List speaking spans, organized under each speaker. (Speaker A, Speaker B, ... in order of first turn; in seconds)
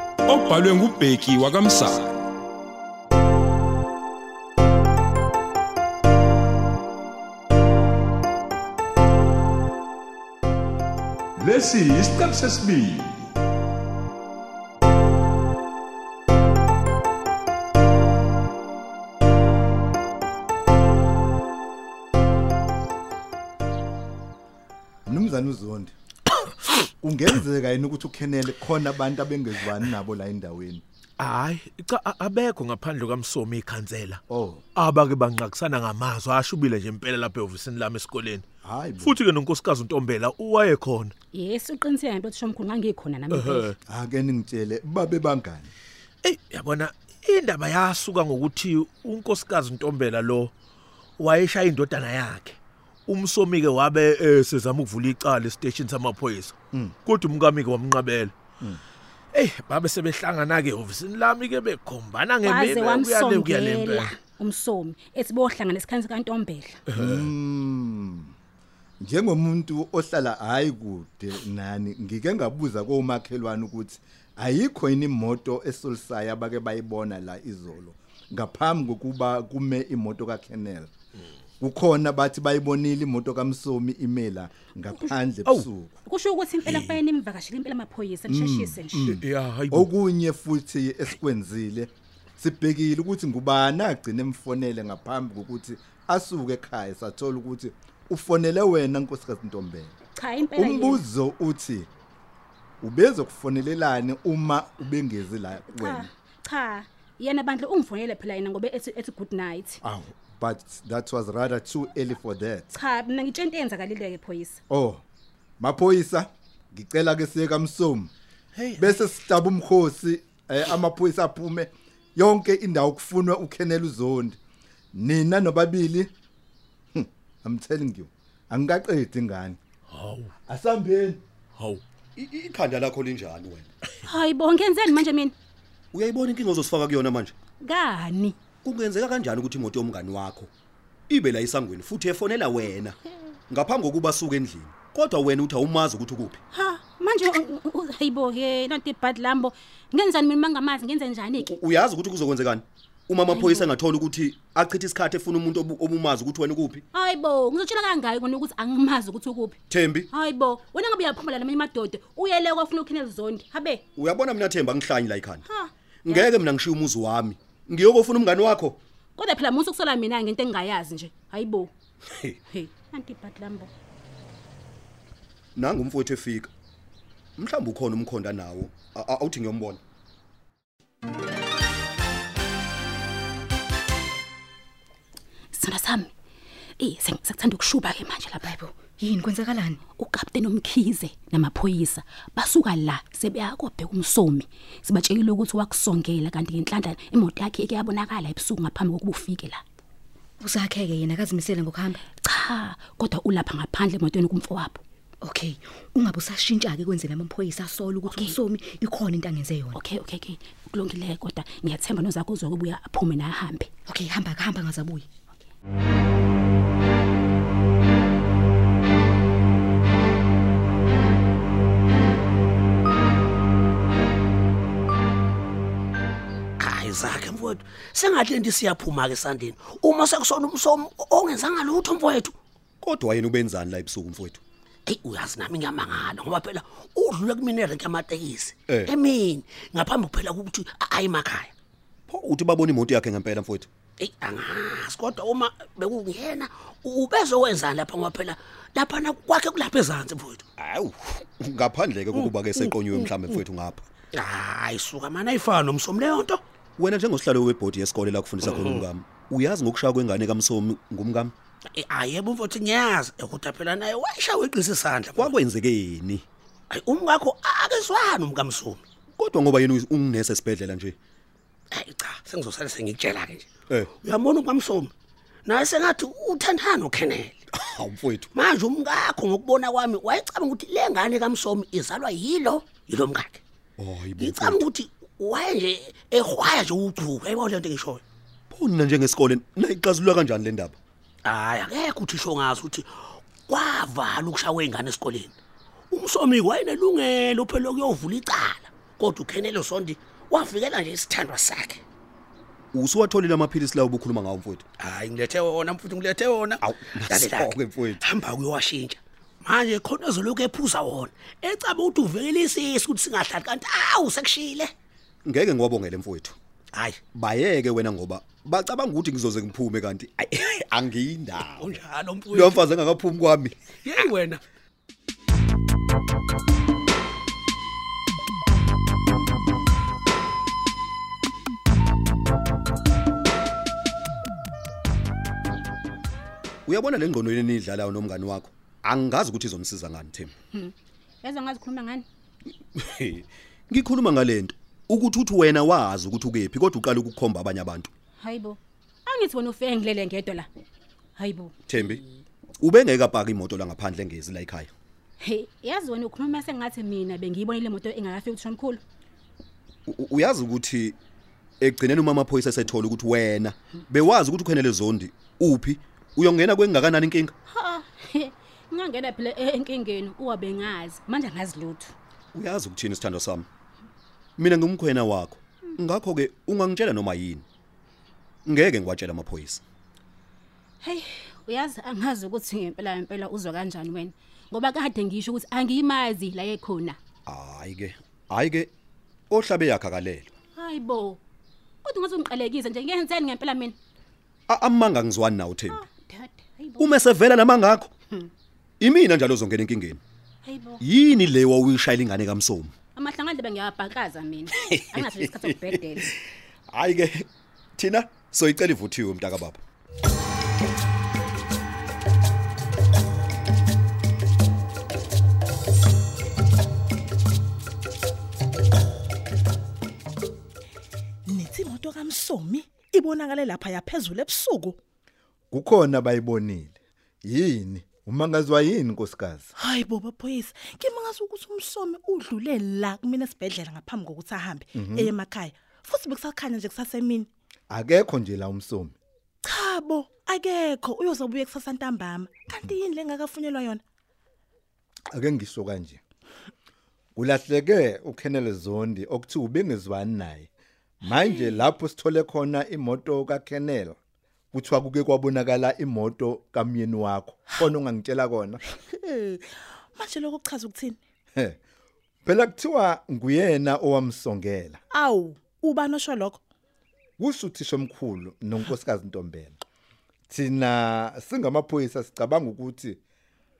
Speaker A: 0.2-2.2, 11.3-13.3
Speaker B: 25.1-25.9, 26.8-30.8, 34.3-34.6, 38.6-39.2, 43.9-45.7, 66.9-68.3, 69.0-80.9, 81.6-85.9, 88.3-99.9, 100.5-101.9, 102.8-106.1, 109.8-112.7, 114.7-115.0, 115.6-118.1, 118.8-124.4, 124.9-126.1, 126.9-129.6, 130.5-131.2, 425.5-429.5, 434.7-435.1, 437.7-438.9, 445.1-446.0, 447.1-450.5, 451.0-454.0, 454.5-458.6, 462.2-464.8, 467.2-469.6, 470.3-473.0
Speaker C: 31.2-34.2, 34.7-38.4, 39.0-41.1, 43.3-43.7, 46.2-50.5, 51.2-52.6, 53.1-56.5, 57.0-58.3, 59.3-64.2, 66.9-67.2, 86.7-87.0, 89.1-89.9, 118.5-119.0, 129.9-130.3, 131.6-131.8
Speaker D: 41.3-43.7, 62.4-66.8, 86.0-89.1, 100.2-101.0, 105.7-109.8, 112.7-114.6, 134.0-135.3, 137.6-138.3, 146.5-151.5, 153.3-153.7, 156.9-159.6, 160.1-163.8, 165.4-166.3, 169.2-171.7, 172.5-173.7, 185.5-186.1, 186.8-188.6, 189.9-199.6, 202.2-204.8, 208.0-208.3, 209.7-213.7, 340.5-342.0, 348.2-350.5, 351.1-351.5, 355.2-358.8, 367.5-371.9, 380.8-387.0, 390.5-391.2, 391.8-393.8, 395.7-396.9, 400.4-400.8, 402.9-406.1
Speaker E: 132.2-133.7, 135.9-137.3, 138.6-140.5, 141.1-143.0, 143.5-146.4, 151.4-156.8, 159.7-160.1, 163.9-165.4, 166.0-168.8, 175.6-176.5, 177.4-179.8, 232.8-234.4, 242.1-243.7, 250.6-253.8, 256.8-261.3, 265.1-266.2, 269.1-270.9, 277.5-278.3, 283.8-284.6, 288.5-290.8, 302.7-304.6, 306.6-308.0, 315.2-316.4, 317.1-323.7, 336.6-340.3, 342.7-347.9, 351.7-352.0, 352.6-354.7, 359.9-361.0, 361.6-367.3, 372.3-373.5, 374.4-377.4, 378.4-379.6, 387.3-388.7, 389.3-390.3, 394.5-395.8, 396.8-397.9, 398.8-400.0, 400.8-402.7, 404.6-405.7, 406.7-409.6
Speaker F: 188.4-189.8, 200.4-202.0, 205.2-209.8, 213.9-215.1
Speaker G: 226.6-232.3, 234.9-241.5, 244.0-250.5, 254.1-256.4, 258.4-258.8, 261.7-265.3, 266.7-268.8, 271.7-273.5, 274.0-274.9, 275.4-277.4, 278.3-283.4, 284.2-288.0, 291.2-292.9, 293.5-295.3, 295.9-301.8, 304.8-314.7, 316.7-317.0, 321.6-322.6, 323.8-324.4
Speaker H: 421.3-424.8, 429.6-437.3, 439.4-443.8, 451.0-451.6, 458.7-461.0, 464.9-466.4